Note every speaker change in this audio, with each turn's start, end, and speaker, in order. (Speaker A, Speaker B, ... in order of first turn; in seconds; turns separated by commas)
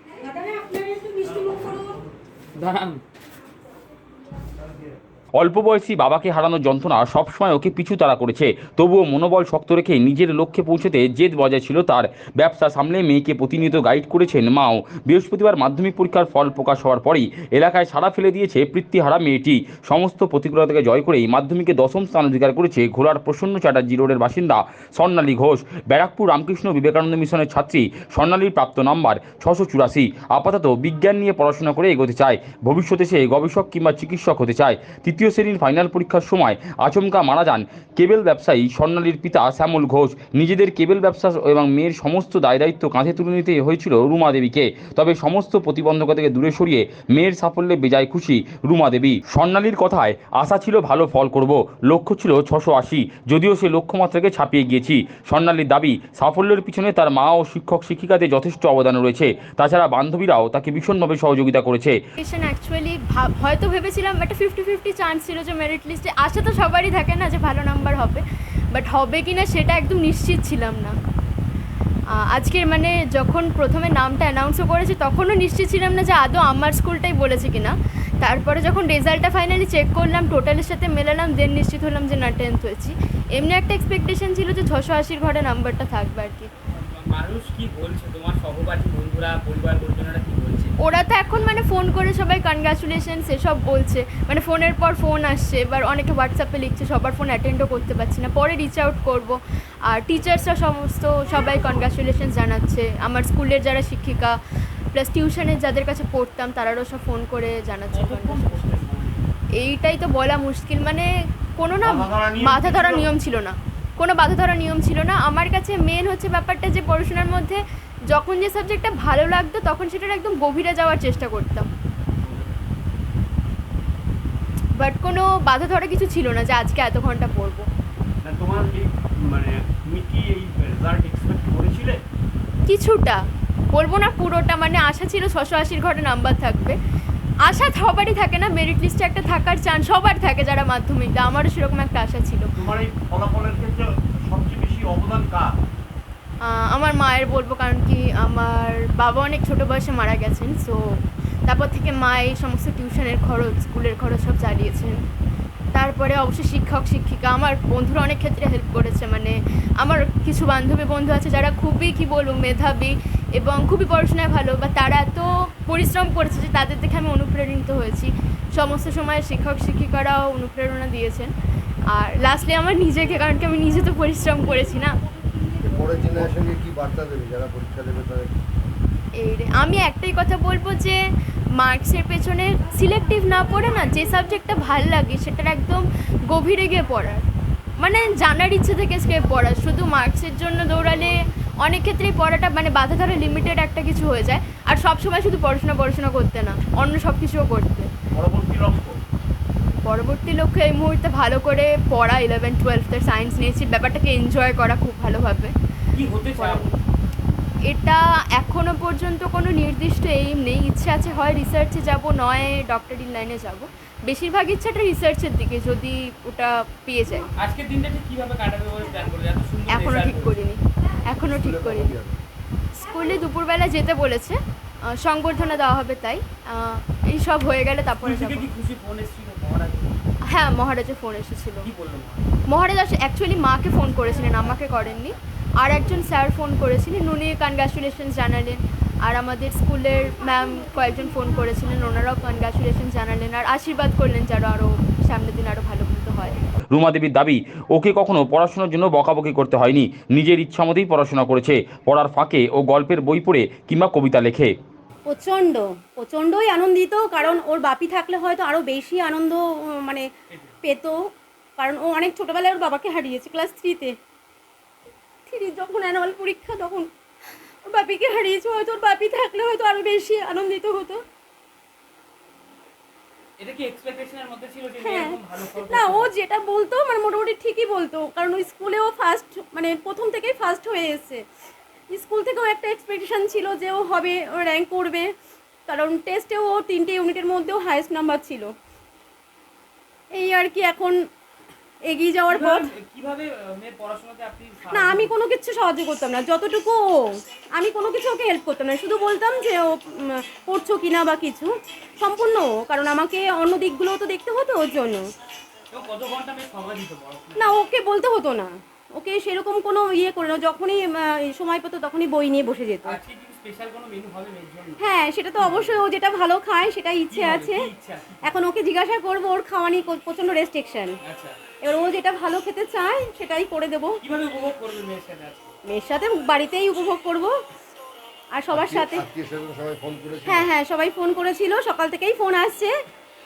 Speaker A: 0.2-2.0, Speaker B: 2.6-3.0, Speaker C: 5.3-62.0, Speaker D: 62.2-68.2, Speaker D: 68.7-70.9, Speaker D: 72.3-86.5, Speaker B: 86.7-90.7, Speaker D: 90.8-99.3, Speaker D: 99.9-104.3, Speaker D: 104.9-108.5, Speaker B: 107.9-109.2, Speaker D: 109.6-111.1, Speaker D: 111.6-117.6, Speaker E: 111.8-113.1, Speaker D: 118.1-121.7, Speaker E: 122.2-122.5, Speaker D: 124.8-127.6, Speaker E: 128.2-132.0, Speaker D: 132.7-133.2, Speaker D: 133.7-136.7, Speaker D: 137.4-142.4, Speaker E: 142.6-145.5, Speaker D: 146.4-155.0, Speaker D: 155.7-171.3, Speaker D: 171.9-174.9, Speaker F: 175.6-178.4, Speaker D: 179.2-181.0, Speaker D: 181.6-187.2, Speaker D: 187.8-197.9, Speaker E: 198.1-198.9, Speaker D: 199.8-205.5, Speaker B: 205.9-206.7, Speaker D: 206.4-206.7, Speaker D: 207.7-217.2, Speaker B: 217.3-220.3, Speaker D: 219.7-222.0, Speaker F: 221.3-222.2, Speaker D: 222.8-224.4, Speaker D: 224.9-228.5, Speaker B: 228.0-230.0, Speaker D: 230.3-231.7, Speaker B: 231.6-232.3, Speaker D: 232.5-246.3, Speaker C: 246.7-254.6, Speaker A: 255.1-260.0, Speaker A: 260.6-261.0, Speaker A: 261.6-263.9, Speaker A: 265.3-266.9, Speaker A: 267.6-271.0, Speaker B: 273.4-276.1, Speaker A: 274.8-281.2, Speaker A: 281.9-285.1, Speaker A: 285.7-288.5, Speaker A: 290.1-290.9, Speaker A: 291.9-292.7, Speaker B: 292.3-295.1, Speaker A: 294.7-305.0, Speaker B: 305.7-307.6, Speaker A: 307.4-313.0, Speaker B: 312.8-314.8, Speaker A: 314.8-317.7, Speaker B: 315.4-315.8, Speaker B: 317.1-318.4, Speaker A: 318.2-321.0, Speaker B: 321.0-321.4, Speaker A: 321.6-324.0, Speaker B: 324.0-325.6, Speaker A: 325.6-327.3, Speaker A: 328.3-329.1, Speaker F: 328.5-330.5, Speaker A: 330.2-332.7